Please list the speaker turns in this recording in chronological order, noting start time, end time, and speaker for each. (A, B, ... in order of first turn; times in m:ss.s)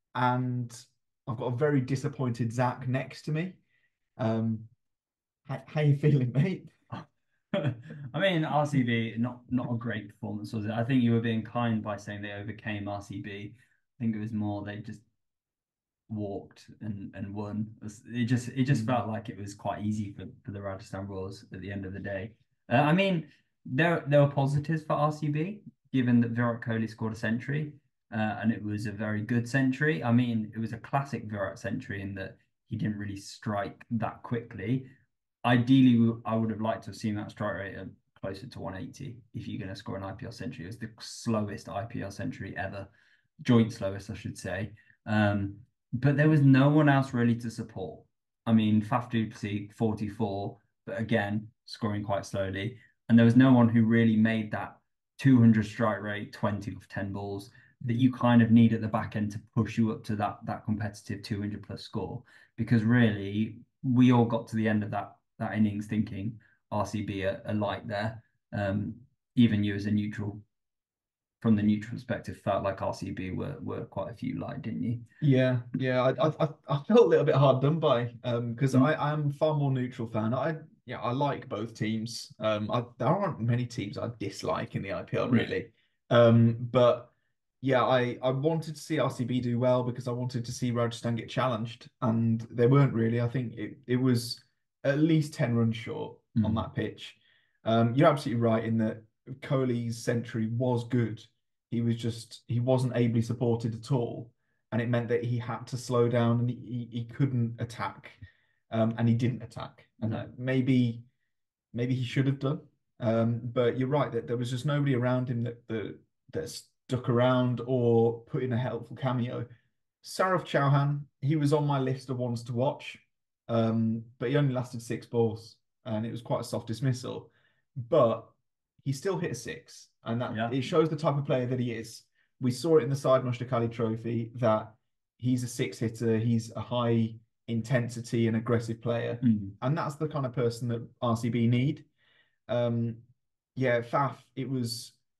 0:00.1-0:03.6 A
0:04.2-0:04.7 A
0:05.5-0:06.7 A
0:06.9-0:15.0 B
0:16.1-0:34.9 B
0:18.7-0:19.0 A
0:35.4-1:10.4 B
0:57.8-0:58.1 A
1:11.4-1:15.0 B
1:15.2-1:51.0 A
1:36.3-1:36.6 B
1:50.0-1:50.3 B
1:51.7-1:59.4 A
2:00.0-2:21.9 A
2:10.3-2:10.6 B
2:19.2-2:19.6 B
2:22.5-2:23.0 A
2:23.6-2:25.0 A